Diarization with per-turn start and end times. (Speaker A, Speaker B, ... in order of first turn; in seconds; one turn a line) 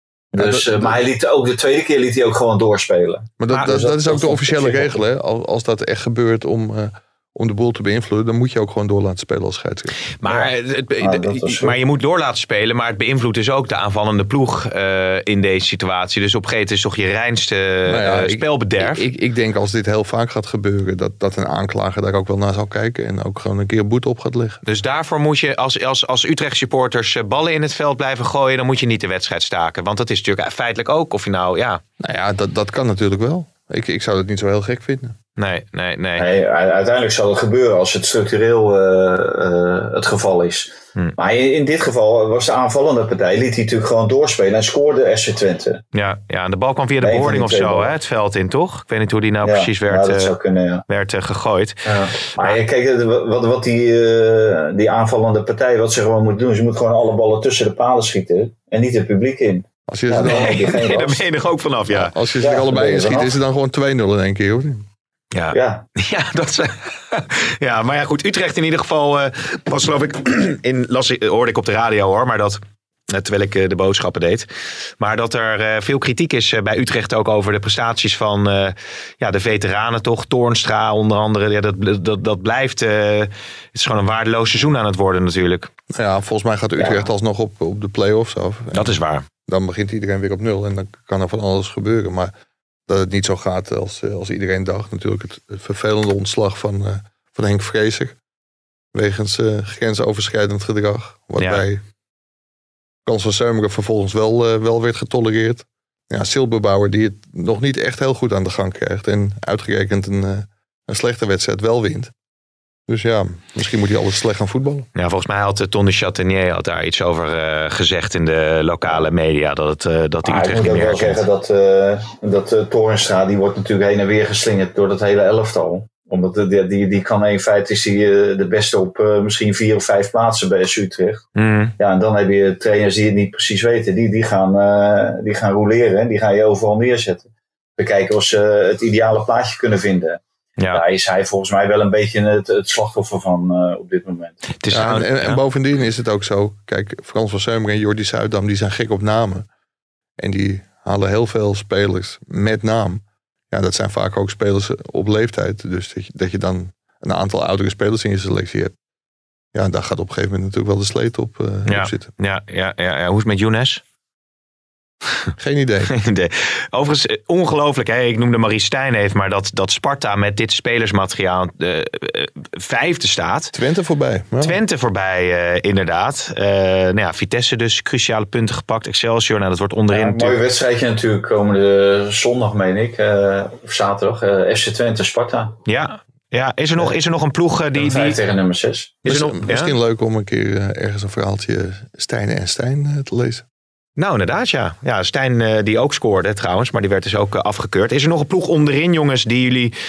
Speaker A: 0.3-5.0
Speaker B: 0.3-1.0
Speaker B: 3.4-9.9
Speaker C: 3.5-3.8
Speaker C: 10.2-19.0
Speaker A: 11.0-11.8
Speaker B: 17.9-24.6
Speaker C: 24.6-31.8
Speaker B: 32.0-35.1
Speaker C: 35.4-36.2
Speaker A: 36.2-45.8
Speaker C: 45.9-50.3
Speaker A: 47.0-47.9
Speaker A: 49.4-50.8
Speaker C: 50.9-52.6
Speaker A: 51.9-61.2
Speaker B: 59.9-60.7
Speaker C: 60.2-62.1
Speaker B: 61.9-64.9
Speaker A: 62.4-63.4
Speaker C: 65.3-85.7
Speaker A: 65.5-65.9
Speaker B: 85.9-92.3
Speaker A: 86.8-87.1
Speaker C: 88.7-89.2
Speaker B: 92.9-98.2
Speaker B: 98.9-101.8
Speaker C: 101.4-101.6
Speaker B: 103.0-112.1
Speaker B: 112.9-114.9
Speaker C: 114.9-121.2
Speaker A: 120.2-131.2
Speaker C: 131.3-131.7
Speaker A: 131.8-140.2
Speaker A: 140.7-144.4
Speaker C: 144.6-145.4
Speaker B: 144.7-149.5
Speaker B: 150.2-158.7
Speaker B: 159.5-162.1
Speaker C: 161.7-163.8
Speaker B: 165.4-165.9
Speaker C: 165.9-173.5
Speaker B: 173.5-174.6
Speaker C: 174.4-180.4
Speaker A: 179.9-185.5
Speaker C: 185.7-188.2
Speaker A: 187.7-189.0
Speaker C: 189.1-189.7
Speaker B: 189.1-193.4
Speaker C: 194.0-199.7